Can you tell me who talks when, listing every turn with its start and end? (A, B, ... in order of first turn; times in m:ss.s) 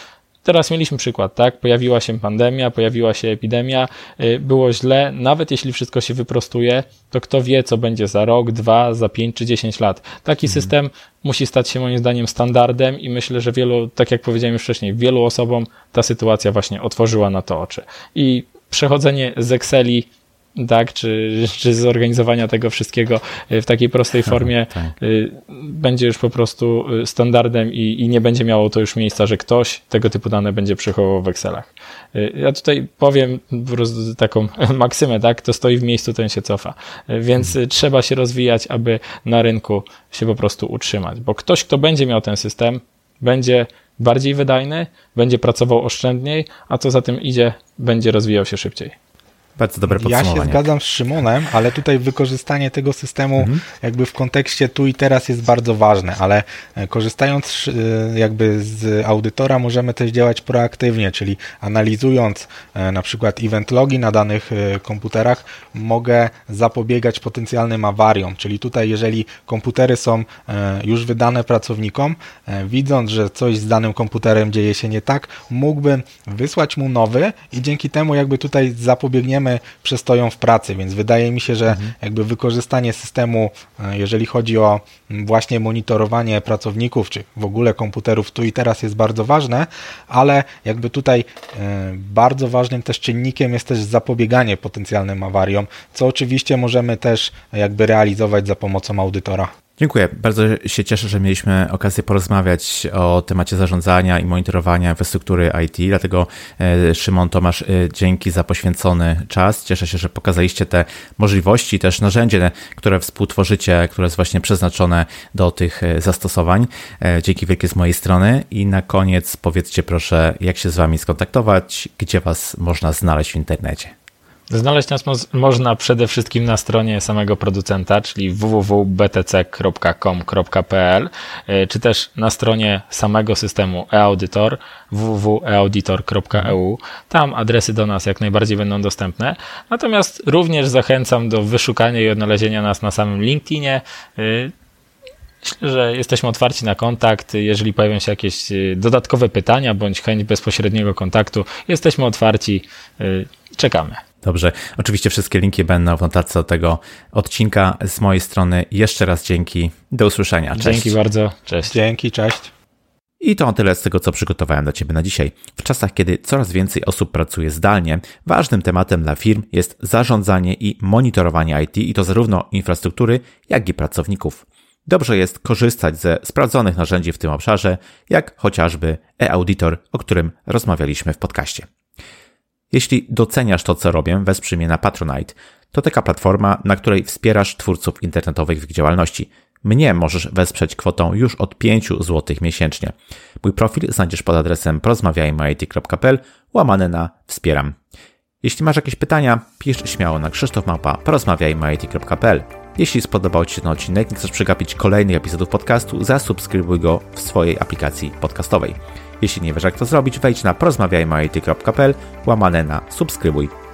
0:00.4-0:48.9 A
0:24.3-0:24.9 B
0:49.6-0:50.6 B
0:49.9-1:39.5 C
0:53.4-0:53.6 B
1:39.8-2:03.9 B
2:04.5-2:24.5 A
2:25.4-2:34.0 A
2:34.2-2:41.0 B
2:40.5-2:41.7 A
2:41.6-2:42.5 C
2:43.2-3:01.7 B
3:02.7-3:17.8 B
3:18.4-3:33.5 B